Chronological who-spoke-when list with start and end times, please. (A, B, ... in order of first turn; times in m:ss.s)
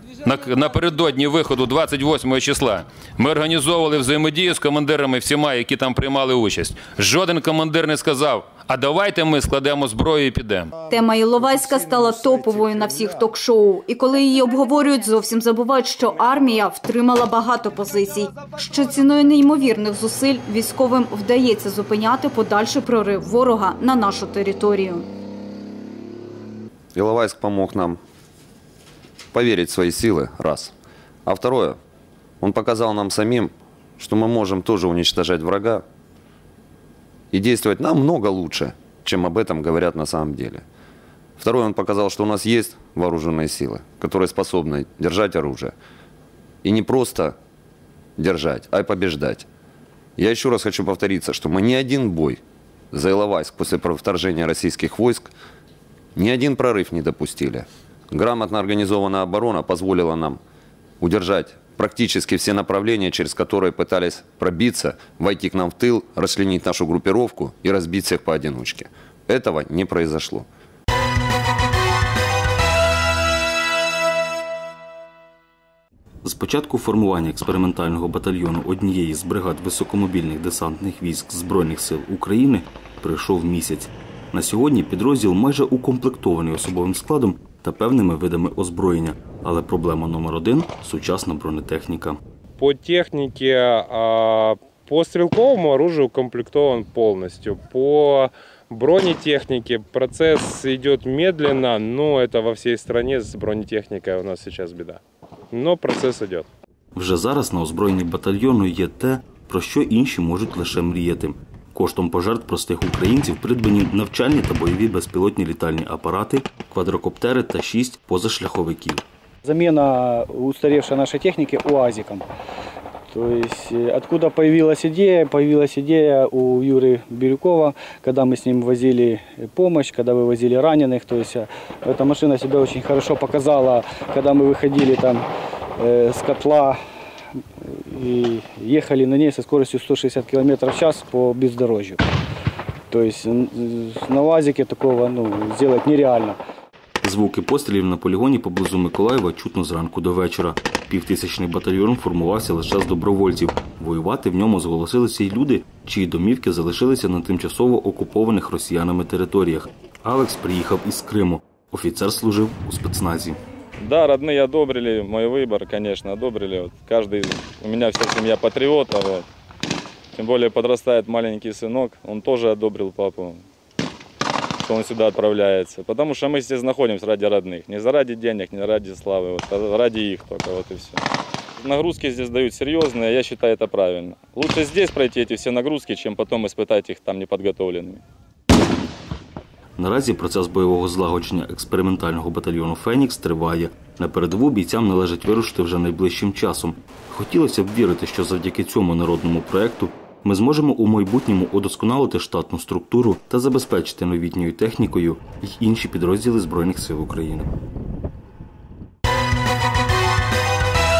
0:00.2-0:10.7 A
0:10.9-0:25.0 B
0:26.9-0:28.0 C
0:29.3-0:30.7 C
0:31.2-0:31.8 C
0:32.4-0:35.8 C
0:37.3-0:40.6 C
0:41.4-0:45.7 C
0:46.6-0:47.4 C
0:48.2-0:49.4 C
0:50.2-0:52.4 C
0:52.9-0:55.3 C
0:56.1-1:00.4 C
1:01.0-1:10.4 C
1:16.2-1:32.2 D
1:32.6-1:45.0 E
1:45.5-1:46.5 E
1:46.9-1:59.0 D
1:59.4-2:02.2 F
2:03.1-2:15.2 F
2:15.8-2:16.8 F
2:17.9-2:22.0 F
2:22.9-2:26.4 F
2:27.0-2:43.4 D
2:43.8-2:49.3 G
2:50.1-2:53.4 G
2:54.6-3:01.0 G
3:01.6-3:08.0 G
3:09.8-3:27.5 D